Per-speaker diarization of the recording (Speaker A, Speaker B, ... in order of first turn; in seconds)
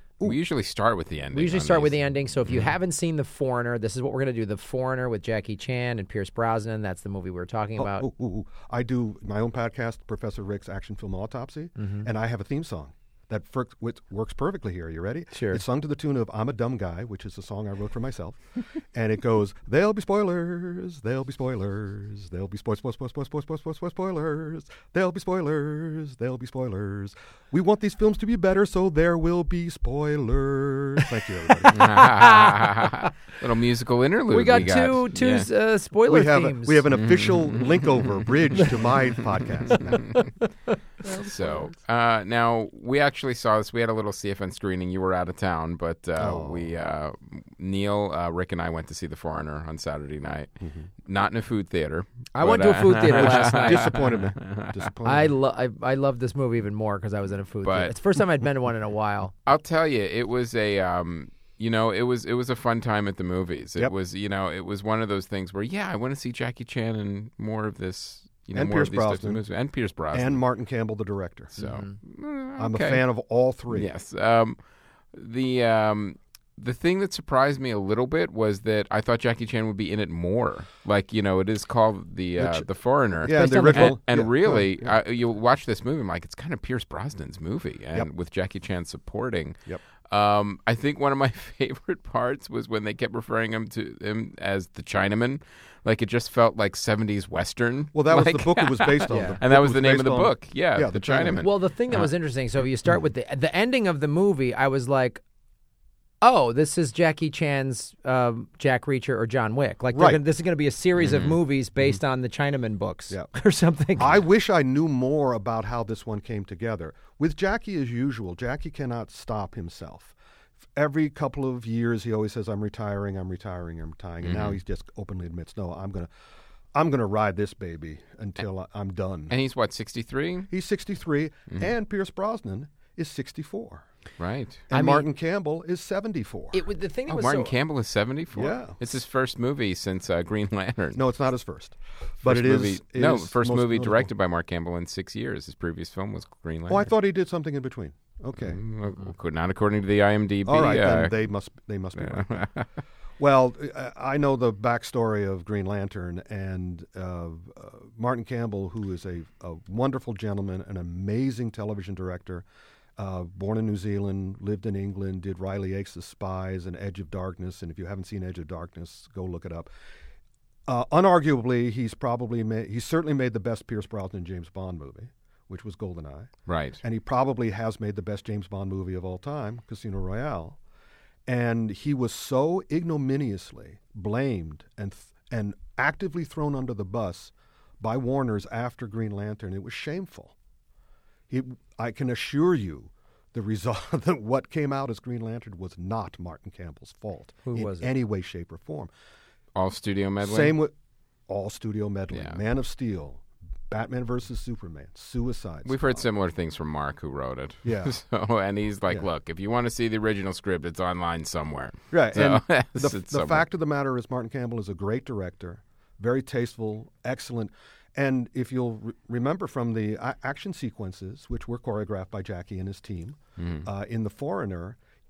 Speaker A: 0.2-2.7, 31.7-35.5, 36.9-39.2, 39.7-40.2, 41.2-54.7, 57.6-58.0, 59.5-70.4, 71.5-73.0, 73.7-74.6, 75.1-102.1, 111.0-111.4, 124.2-124.6, 129.3-130.5, 134.2-134.6, 137.1-141.0, 142.2-146.9, 148.4-151.2, 152.0-152.7, 176.5-176.8, 199.5-200.6, 202.1-202.4, 205.6-213.4, 223.4-223.7
Speaker B: 1.3-8.1, 11.8-12.1, 15.3-15.6, 31.6-33.1, 34.3-36.8, 40.1-40.7, 52.3-53.9, 55.0-59.3, 71.6-72.0, 83.3-84.0, 99.1-99.4, 101.4-105.2, 106.2-114.2, 134.7-135.1, 136.5-137.5, 197.4-197.9
Speaker C: 7.8-32.0, 36.1-40.2, 41.0-41.7, 46.2-46.7, 50.6-50.9, 53.2-55.3, 68.5-69.4, 70.1-71.5, 72.6-73.9, 82.4-82.7, 83.2-84.9, 97.9-101.5, 109.9-110.2, 114.0-120.1, 120.8-126.1, 126.7-129.3, 130.5-133.8, 134.7-136.6, 138.3-138.8, 140.9-144.1, 146.7-148.6, 150.4-152.5, 153.2-162.4, 163.0-169.7, 170.7-180.6, 181.3-190.3, 191.3-198.9, 200.2-200.7, 201.3-205.9, 207.6-208.0, 211.9-224.8